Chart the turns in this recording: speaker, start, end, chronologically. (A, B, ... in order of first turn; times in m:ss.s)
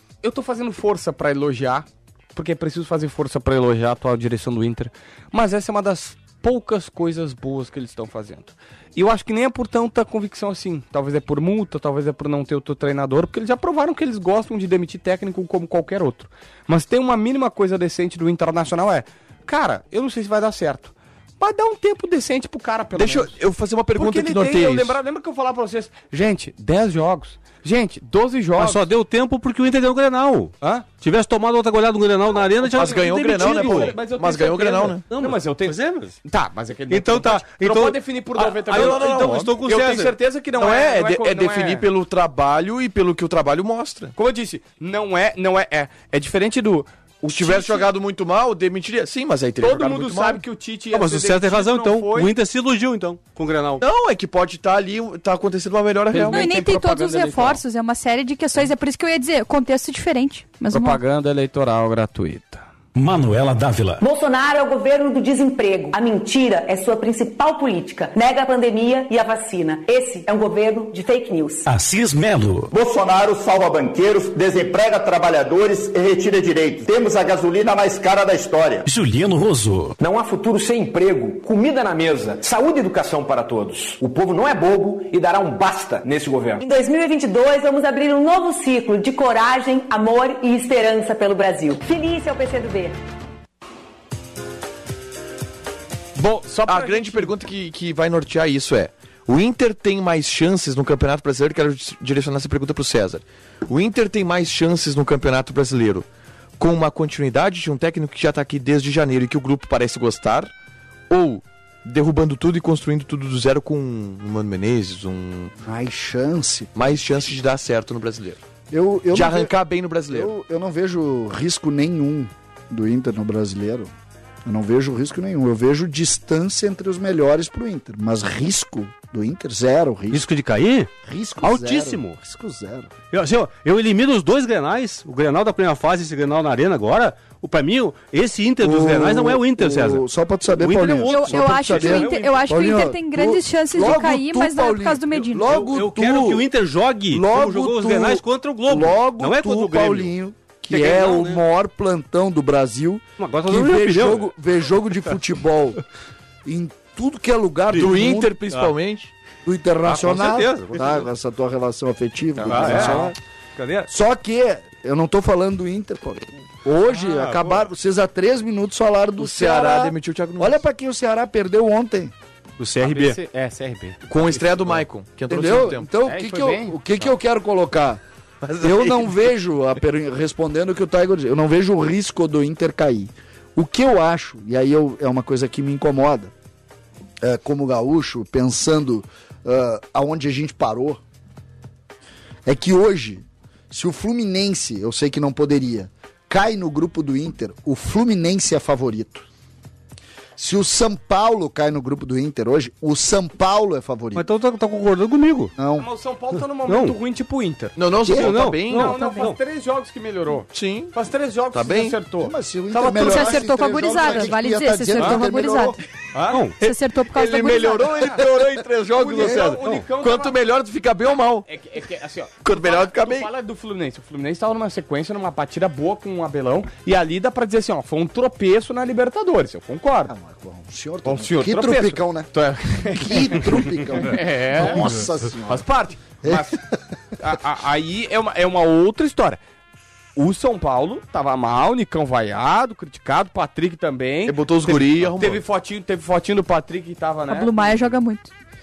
0:00.2-0:23.4 A
0:23.0-0:25.0 B
0:24.0-0:28.8 A
0:28.6-0:34.0 C
0:32.4-0:41.9 A
0:32.7-0:35.1 B
0:35.1-0:36.2 C
0:36.9-0:40.2 C
0:38.7-0:39.6 B
0:40.6-0:44.2 B
0:44.2-0:47.9 A
0:47.2-0:50.4 B
0:49.6-0:52.3 A
0:50.9-0:53.8 C
0:53.8-0:56.5 B
0:56.1-0:57.6 A
0:56.2-1:01.0 D
1:00.7-1:02.6 A
1:03.0-1:04.0 E
1:04.0-1:11.7 F
1:11.7-1:12.7 E
1:12.7-1:18.9 G
1:18.9-1:20.0 E
1:20.0-1:26.6 G
1:26.6-1:33.0 F
1:36.2-1:37.3 A
1:36.7-1:46.1 B
1:46.6-1:50.5 B
1:51.1-1:55.5 B
1:55.6-1:57.0 H
1:56.8-1:58.4 B
1:58.7-1:59.5 H
1:59.1-2:00.3 B
2:00.1-2:03.9 H
2:04.5-2:10.2 H
2:10.1-2:10.9 C
2:11.1-2:12.9 H
2:11.4-2:12.2 C
2:13.1-2:22.5 C
2:18.6-2:26.4 H
2:21.1-2:25.6 D
2:25.5-2:30.1 C
2:27.1-2:35.8 H
2:30.7-2:31.4 C
2:33.2-2:34.3 C
2:36.4-2:38.4 H
2:37.8-2:39.1 B
2:39.4-2:43.2 H
2:39.8-2:41.1 C
2:42.4-2:43.1 A
2:42.4-2:43.1 C
2:43.6-2:43.9 C
2:43.9-2:52.1 H
2:46.9-2:47.7 C
2:49.2-2:50.6 B
2:52.6-2:53.2 C
2:52.8-2:54.8 A
2:54.1-2:55.9 B
2:55.3-2:58.0 H
2:56.0-2:57.1 A
2:58.4-2:59.0 B
2:58.6-3:06.3 H
3:07.2-3:11.0 H
3:12.4-3:19.3 H
3:20.4-3:24.2 H
3:24.2-3:25.5 C
3:25.6-3:25.9 H
3:25.8-3:27.8 A
3:26.6-3:27.0 C
3:27.8-3:29.0 B
3:28.0-3:28.4 H
3:28.2-3:29.4 C
3:28.7-3:33.5 A
3:29.0-3:29.3 D
3:30.5-3:31.0 B
3:31.5-3:32.0 B
3:32.2-3:35.8 H
3:32.9-3:35.8 D
3:36.1-3:36.5 A
3:36.6-3:38.2 D
3:37.1-3:41.5 B
3:38.9-3:40.4 A
3:39.2-3:39.5 H
3:41.5-3:50.1 A
3:42.4-3:43.3 B
3:50.1-3:52.3 H
3:51.0-3:56.6 A
3:52.9-3:55.7 H
3:54.7-3:55.1 C
3:56.2-3:56.8 H
3:57.2-3:59.4 A
4:00.2-4:07.9 A
4:04.2-4:05.4 B
4:07.3-4:08.3 D